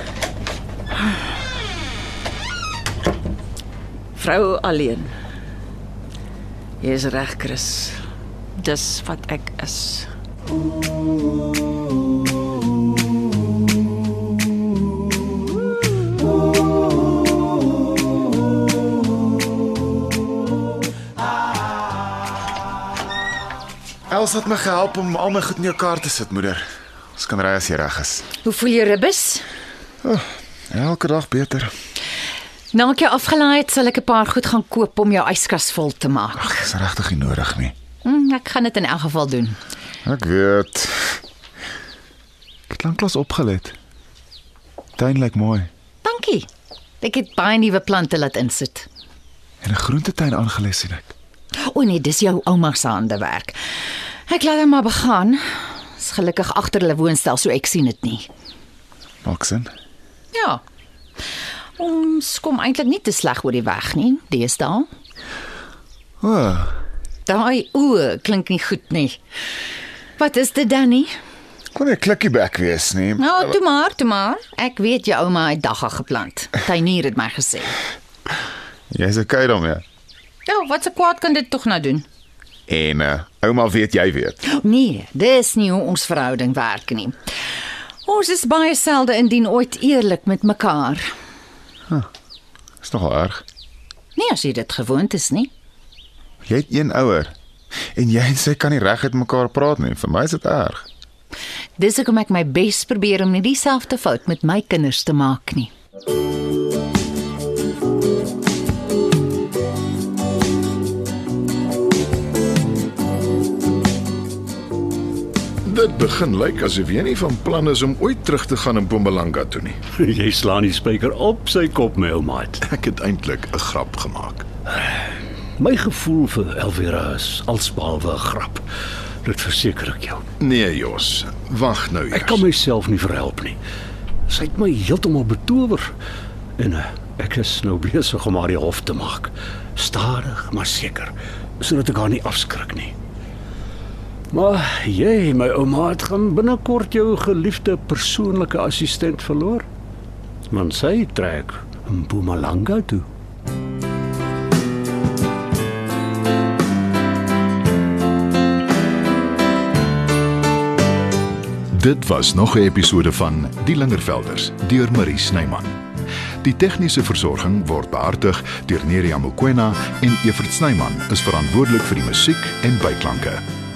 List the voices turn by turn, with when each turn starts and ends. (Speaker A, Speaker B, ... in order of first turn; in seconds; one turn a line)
Speaker A: 4.2-5.1
Speaker A: 6.8-8.0
Speaker A: 8.6-10.1
Speaker B: 24.1-28.3
Speaker C: 28.4-29.4
Speaker B: 30.0-31.7
Speaker C: 32.7-36.6
Speaker B: 36.4-37.7
Speaker C: 38.0-39.6
Speaker B: 40.0-41.2
Speaker B: 42.7-43.7
Speaker B: 45.0-45.7
Speaker C: 46.0-46.5
Speaker C: 47.0-48.9
Speaker B: 49.6-51.1
Speaker C: 51.6-53.5
Speaker C: 54.3-58.3
Speaker B: 59.2-59.7
Speaker C: 60.3-60.6
Speaker C: 61.8-64.8
Speaker B: 66.2-66.8
Speaker C: 67.2-69.2
Speaker C: 70.2-71.1
Speaker B: 71.7-73.5
Speaker C: 73.2-77.8
Speaker B: 78.9-79.8
Speaker C: 80.5-82.0
Speaker B: 82.7-84.4
Speaker C: 84.4-87.2
Speaker C: 88.0-91.1
Speaker B: 92.8-93.4
Speaker C: 94.2-95.5
Speaker B: 96.5-97.3
Speaker B: 97.9-100.8
Speaker C: 101.8-105.7
Speaker D: 115.6-119.8
Speaker E: 120.0-122.5
Speaker D: 122.6-124.5
Speaker E: 124.7-128.6
Speaker E: 129.2-130.2
Speaker D: 130.4-132.4
Speaker E: 132.1-133.6
Speaker E: 134.3-135.8
Speaker E: 136.6-141.1
Speaker E: 141.6-142.9
Speaker E: 144.3-149.6
Speaker E: 150.5-153.0
Speaker D: 161.7-165.8
Speaker D: 166.4-173.4